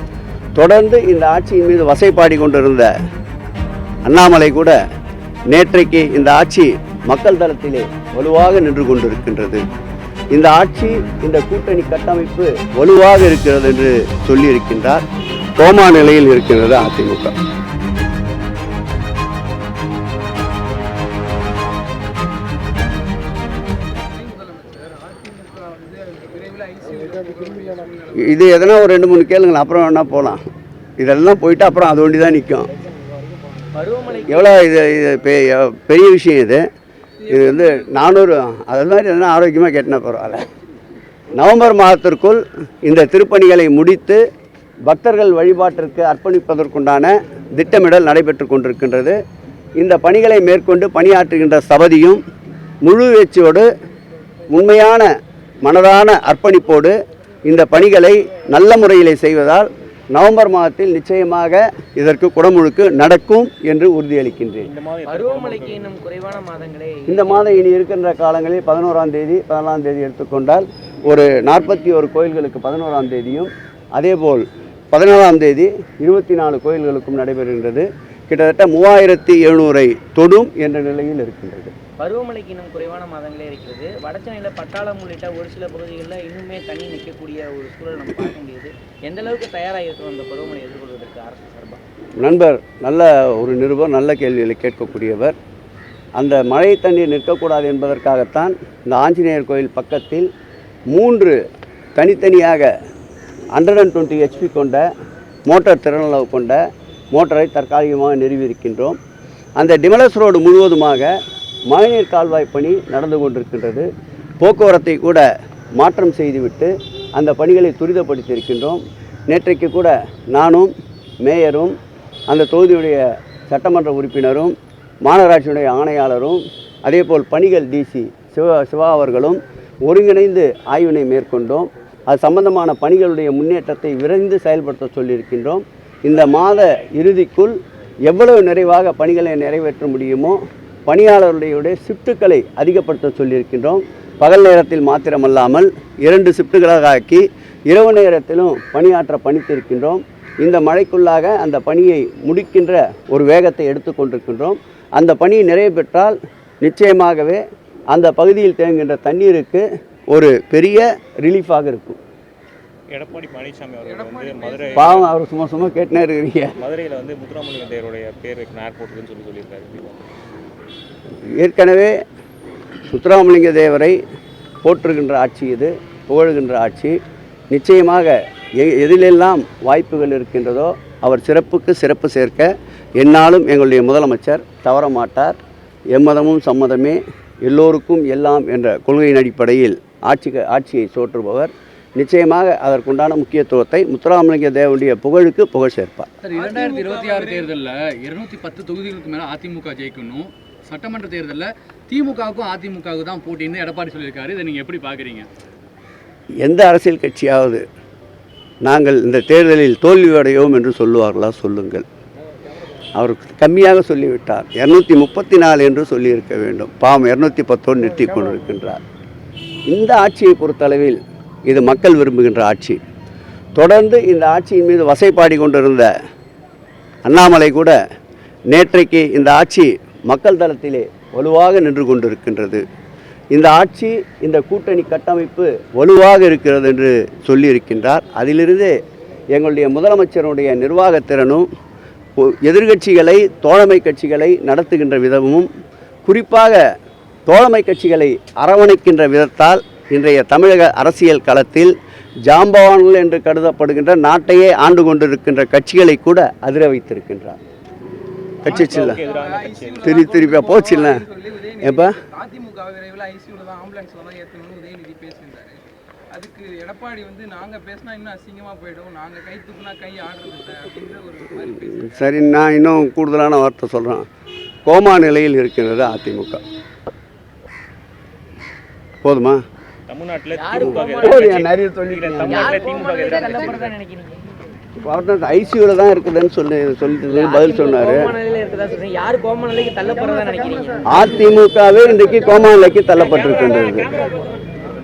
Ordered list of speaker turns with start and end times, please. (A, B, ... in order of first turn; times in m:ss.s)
0:00.6-0:02.9 A
0:04.0-0:04.8 A
0:05.5-0:09.6 A
0:10.3-0:15.0 A
0:15.6-0:17.3 A
0:23.9-0:28.5 B
0:28.1-0:30.4 A
0:31.0-0:32.7 A
0:33.7-0:34.5 C
0:34.3-0:36.6 A
0:37.2-0:38.0 B
0:37.3-0:40.5 A
0:41.3-0:44.2 A
0:44.9-0:49.2 A
0:49.8-0:52.2 A
0:52.8-0:53.6 A
0:54.5-0:55.1 A
0:55.6-0:56.9 A
0:57.4-1:04.7 A
1:04.6-1:05.9 D
1:05.0-1:07.5 C
1:07.1-1:21.7 A
1:22.0-1:31.8 C
1:32.2-1:35.4 A
1:36.2-1:40.3 A
1:40.9-1:41.3 A
1:42.0-1:42.7 A
1:43.5-1:44.8 A
1:45.5-1:46.6 A
1:47.1-1:49.0 A
1:49.6-1:51.1 A
1:51.7-1:53.9 A
1:54.4-1:55.2 A
1:55.8-2:00.7 A
2:01.2-2:01.7 A
2:02.3-2:17.5 A
2:18.0-2:42.0 A
2:42.9-2:45.1 D
2:43.8-2:45.1 B
2:44.8-2:46.5 A
2:46.6-2:49.9 D
2:51.4-2:52.0 A
2:52.9-2:54.0 A
2:54.6-2:57.0 A
2:57.5-3:05.4 A
3:05.9-3:16.1 A
3:16.2-3:25.3 E
3:16.3-3:17.5 B
3:26.4-3:27.6 A
3:28.6-3:31.8 A
3:32.9-3:38.8 A
3:39.7-3:42.8 A
3:43.6-3:45.9 A
3:47.0-3:47.8 A
3:48.5-3:52.6 A
3:53.3-3:58.7 A
3:59.3-4:01.5 A
4:02.2-4:05.5 A
4:06.0-4:06.6 A
4:07.3-4:11.7 A
4:12.2-4:17.4 A
4:18.4-4:19.0 A
4:18.4-4:20.0 D
4:18.5-4:32.1 B
4:19.8-4:21.0 A
4:21.6-4:22.0 A
4:31.6-4:34.0 A
4:34.6-4:36.4 A
4:39.0-4:39.4 A
4:39.9-4:43.7 D
4:40.4-4:41.4 C
4:40.6-4:42.5 A
4:42.1-4:44.2 C
4:44.8-4:48.1 A
4:47.1-4:50.9 C
4:50.9-4:53.9 A